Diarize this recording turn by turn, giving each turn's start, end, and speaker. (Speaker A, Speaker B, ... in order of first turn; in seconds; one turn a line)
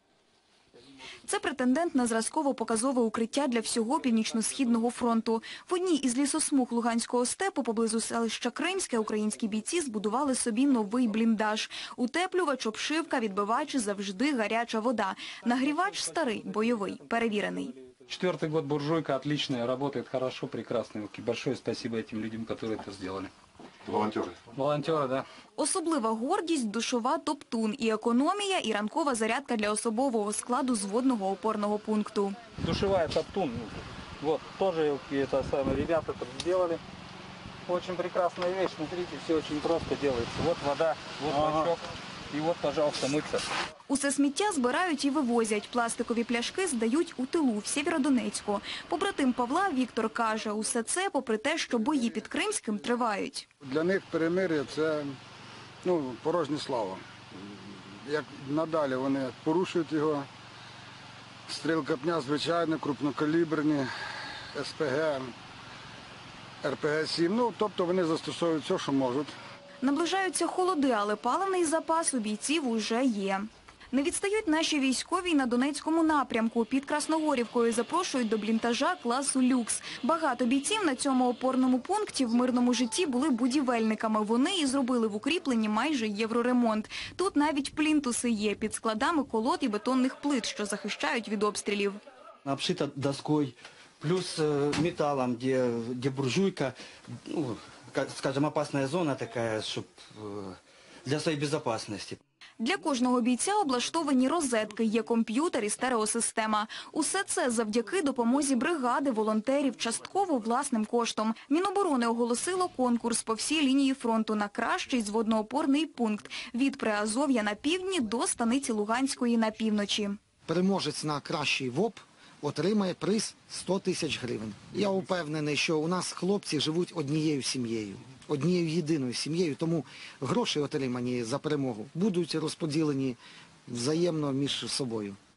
Speaker A: 1.3-17.7
Speaker B: 18.1-23.3
Speaker B: 24.4-25.2
Speaker A: 25.6-32.4
Speaker B: 32.6-36.8
Speaker B: 37.7-41.8
Speaker B: 42.3-43.5
Speaker A: 43.9-53.5
Speaker C: 53.6-55.2
Speaker C: 55.8-57.0
Speaker C: 58.0-60.3
Speaker C: 61.5-63.9
Speaker C: 64.5-65.3
Speaker C: 66.6-69.3
Speaker A: 69.8-92.0
Speaker D: 92.4-96.8
Speaker D: 97.3-102.2
Speaker A: 102.6-120.2
Speaker E: 120.5-135.2